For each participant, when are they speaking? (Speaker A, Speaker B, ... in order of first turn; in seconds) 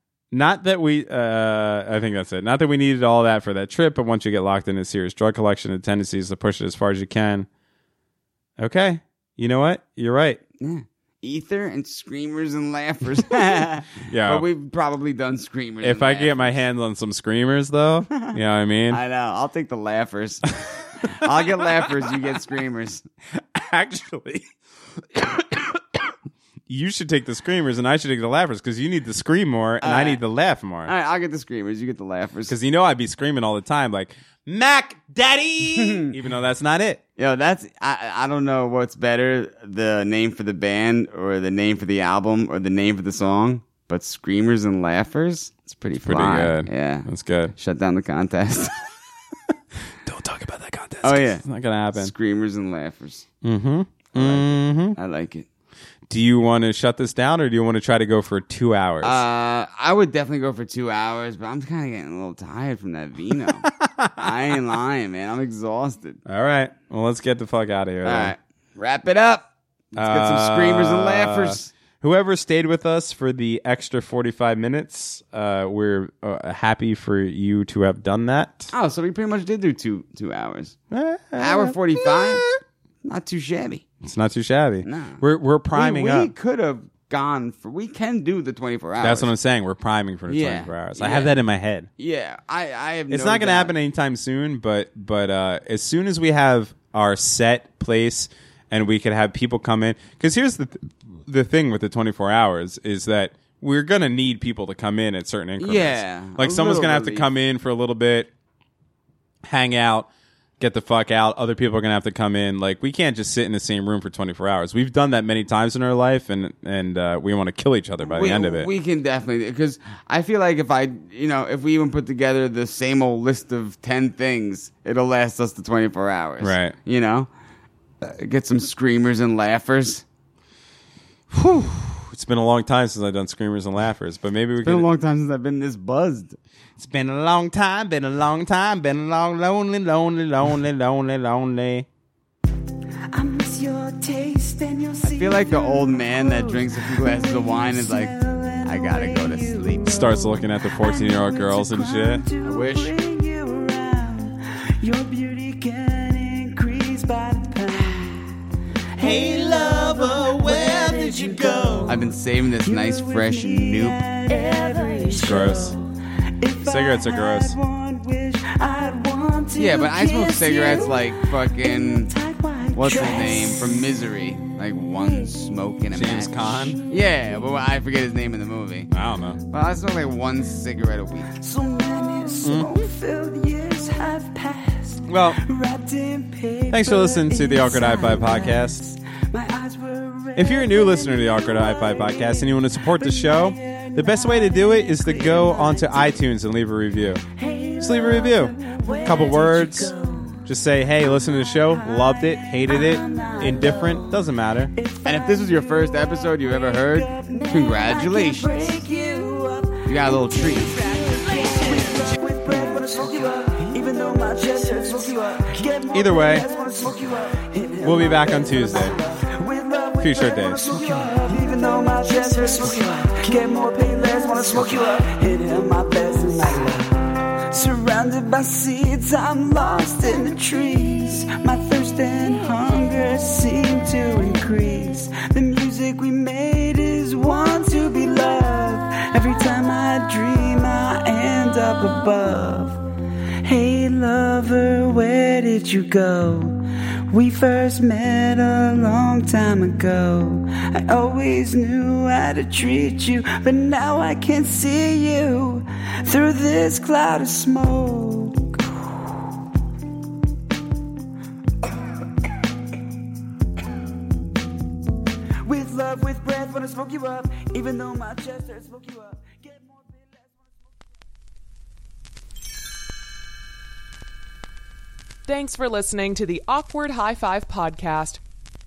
Speaker A: 0.3-7.5, 8.6-10.4, 14.1-14.5, 15.8-19.0, 21.3-22.1, 23.4-26.1, 26.7-30.9, 32.5-37.0, 46.0-47.5, 49.9-52.1, 53.4-55.0, 56.1-59.2, 63.6-64.6, 66.3-68.3, 70.0-78.7, 80.9-82.6, 84.0-86.3, 89.0-91.9, 93.1-108.3, 109.4-110.1, 110.6-118.7, 126.4-126.8, 131.3-134.8, 136.8-141.9, 149.8-152.2, 159.0-162.0, 165.1-165.8, 166.6-167.6, 175.9-176.8, 178.9-179.4, 182.4-182.8, 185.1-185.4, 186.7-188.8, 190.4-197.2, 197.8-199.9, 200.4-204.7, 215.9-216.4, 217.8-219.0, 220.0-220.9
Speaker B: 10.6-16.6, 18.1-18.4, 18.9-23.1, 29.8-30.2, 30.9-32.5, 35.7-36.1, 37.2-48.8, 51.0-51.4, 52.0-53.3, 54.1-55.5, 59.0-66.2, 68.0-71.7, 78.7-80.8, 81.4-82.4, 83.0-83.8, 84.8-89.3, 90.3-91.3, 92.0-93.8, 105.6-107.3, 118.0-127.3, 128.0-130.0, 134.6-136.4, 145.0-149.9, 152.4-152.9, 161.9-164.0, 169.6-172.1, 172.7-178.9, 179.5-181.3, 205.1-208.8, 209.9-210.8
Speaker C: 143.1-158.3, 158.9-162.1, 162.6-174.0, 174.8-175.3, 176.6-177.5, 181.3-196.2, 197.3-200.5, 201.2-204.2, 204.7-205.4, 206.7-242.8, 243.4-258.9, 265.4-270.4
Speaker D: 275.3-278.2